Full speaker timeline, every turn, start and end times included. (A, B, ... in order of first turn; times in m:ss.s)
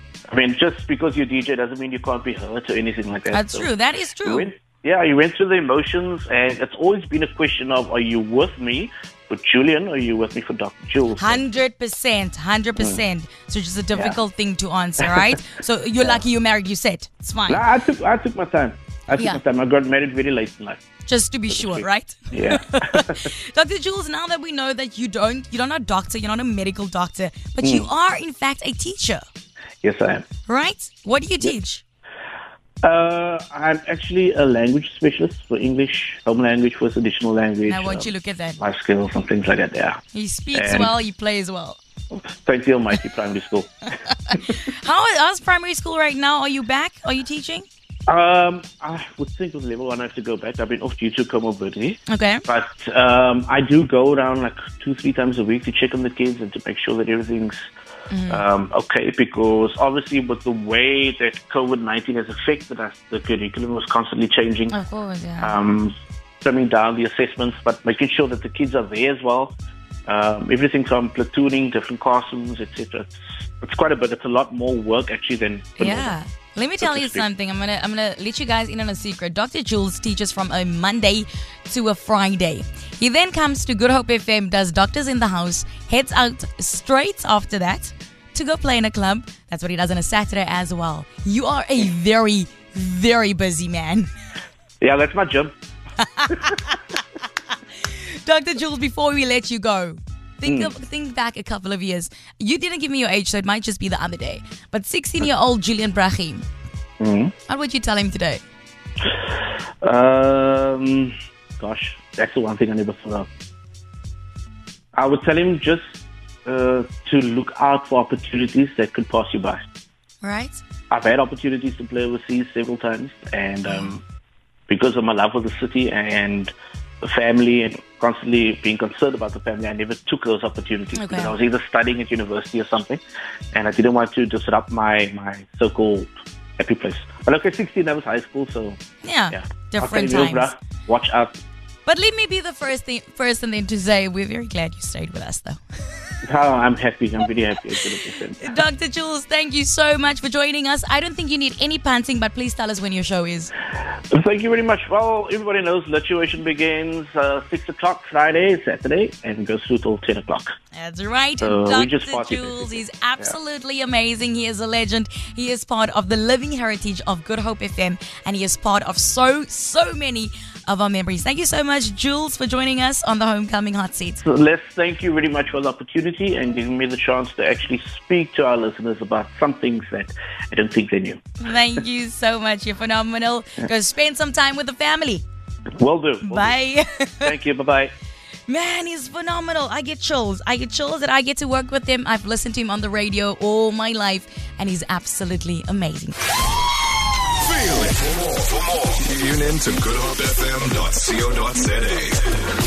0:00.3-0:03.7 A
0:03.3-0:04.5 B
0:04.2-0:11.4 A
0:11.2-0:17.6 B
0:13.9-0:14.2 A
0:15.0-0:15.3 A
0:17.5-0:20.8 A
0:19.2-0:19.4 B
0:21.0-0:29.2 B
0:21.5-0:23.3 A
0:27.6-0:27.9 A
0:29.8-0:30.2 A
0:30.5-0:31.8 B
0:32.8-0:40.0 A
0:37.7-0:38.6 B
0:40.1-0:41.8 B
0:40.5-0:40.9 A
0:42.1-0:43.7 A
0:44.1-0:47.6 B
0:44.3-0:44.6 A
0:48.1-0:57.6 A
0:52.1-0:52.4 B
0:58.1-0:58.4 B
0:58.3-1:04.8 A
1:04.7-1:05.6 B
1:05.4-1:09.5 A
1:10.1-1:16.2 A
1:15.8-1:34.1 B
1:16.8-1:17.2 A
1:34.8-1:35.5 A
1:36.0-1:37.0 B
1:37.8-1:46.4 B
1:40.4-1:40.7 A
1:47.0-1:47.3 A
1:47.5-1:48.4 B
1:49.8-1:53.3 A
1:54.9-1:59.6 A
2:00.2-2:00.6 B
2:00.9-2:04.0 A
2:03.6-2:03.9 B
2:04.7-2:13.0 A
2:10.9-2:11.4 B
2:13.5-2:18.8 A
2:19.0-2:20.5 B
2:19.3-2:21.4 A
2:21.8-2:25.6 B
2:26.2-2:28.6 A
2:28.4-2:33.5 B
2:34.1-2:40.5 A
2:40.7-2:54.2 B
2:41.4-2:43.4 A
2:54.2-3:01.8 A
3:01.4-3:05.2 B
3:05.8-3:06.6 A
3:06.2-3:07.3 B
3:07.2-3:07.9 A
3:08.5-3:16.2 B
3:17.4-3:22.4 C